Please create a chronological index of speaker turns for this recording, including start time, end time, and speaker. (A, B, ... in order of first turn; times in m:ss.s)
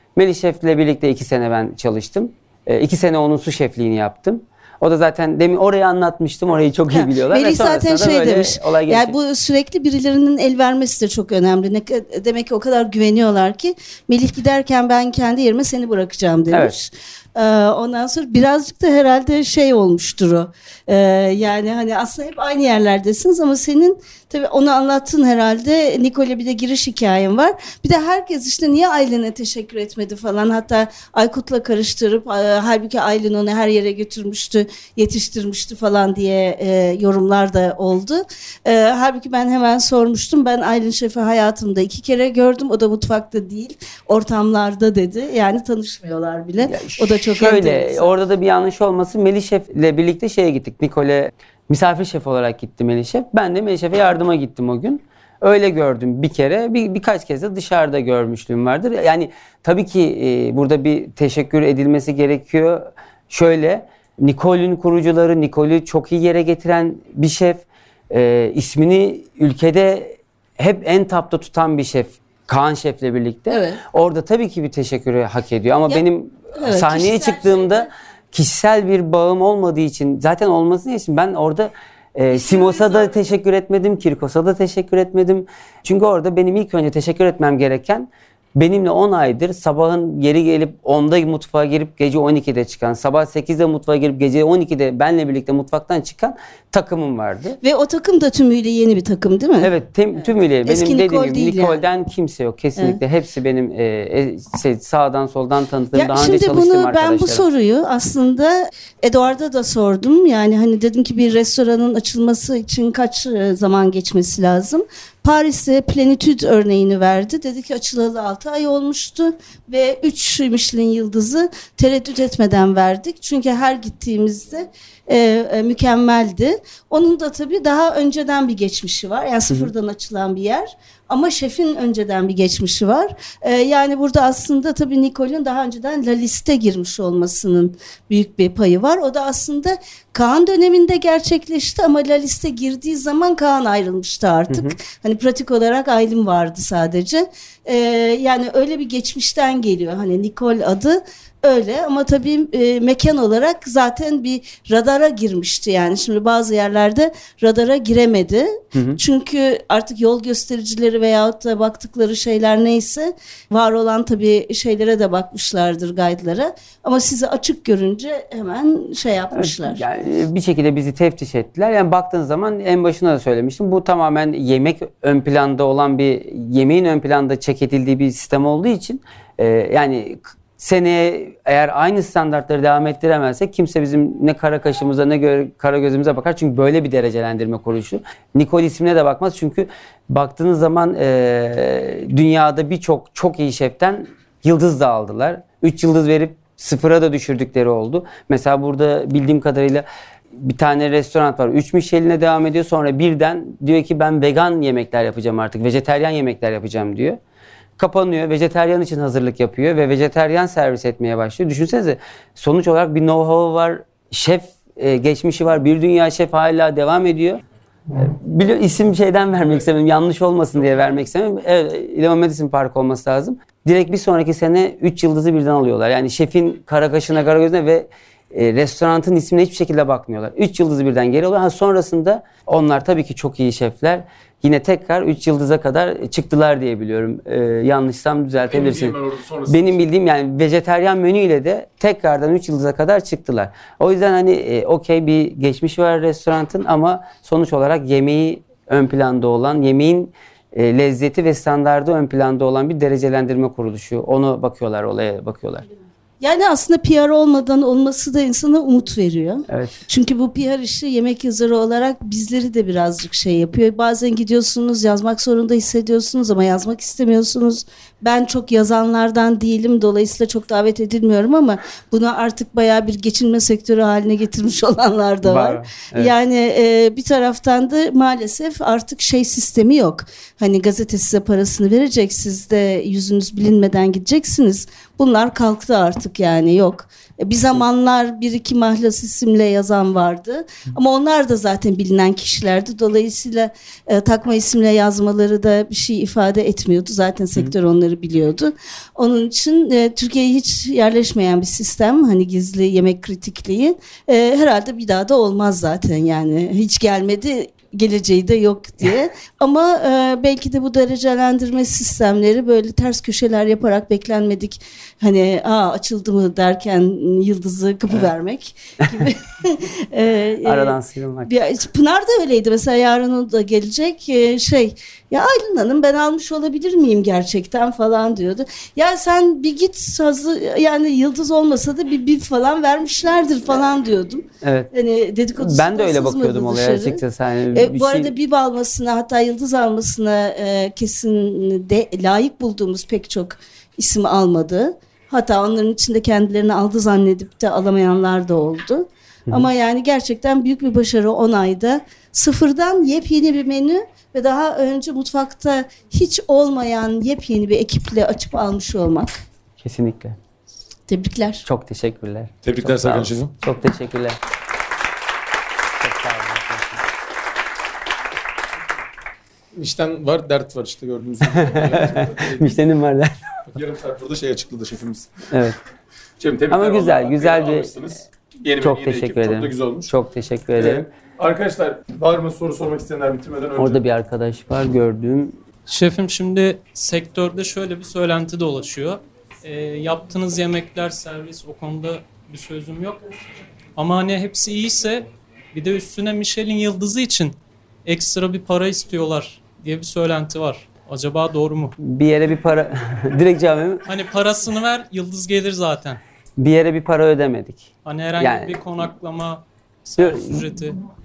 0:00.2-0:09.2 A
0:06.9-0:48.1 B
0:46.6-1:37.6 A
1:13.5-1:13.8 B
1:16.6-1:17.9 B
1:22.4-1:23.2 B
1:37.6-1:39.7 B
1:39.6-1:47.4 A
1:40.6-1:41.8 B
1:45.9-2:49.8 B
2:24.5-2:24.8 A
2:38.8-2:39.0 A
2:49.3-3:27.2 A
3:27.8-3:59.0 A
3:58.5-3:59.8 C
3:59.5-4:15.6 A
4:16.2-5:59.1 B
4:19.5-4:19.8 A
4:35.2-4:36.1 A
5:20.4-5:21.3 A
5:34.4-5:34.7 A
5:35.4-5:38.1 A
5:59.6-6:00.2 A
6:00.9-6:01.5 B
6:01.4-6:04.2 A
6:02.4-6:03.3 C
6:05.8-6:06.8 A
6:09.6-6:12.6 C
6:11.4-6:13.1 A
6:13.5-6:15.2 C
6:15.3-6:15.6 A
6:16.2-6:19.9 C
6:16.5-6:17.7 A
6:18.6-6:20.9 A
6:20.6-6:23.8 C
6:23.6-6:25.4 A
6:25.7-6:33.0 D
6:33.8-6:41.8 D
6:41.8-6:43.8 A
6:43.9-6:46.0 D
6:46.4-6:48.6 A
6:47.8-6:50.8 D
6:50.0-6:50.5 A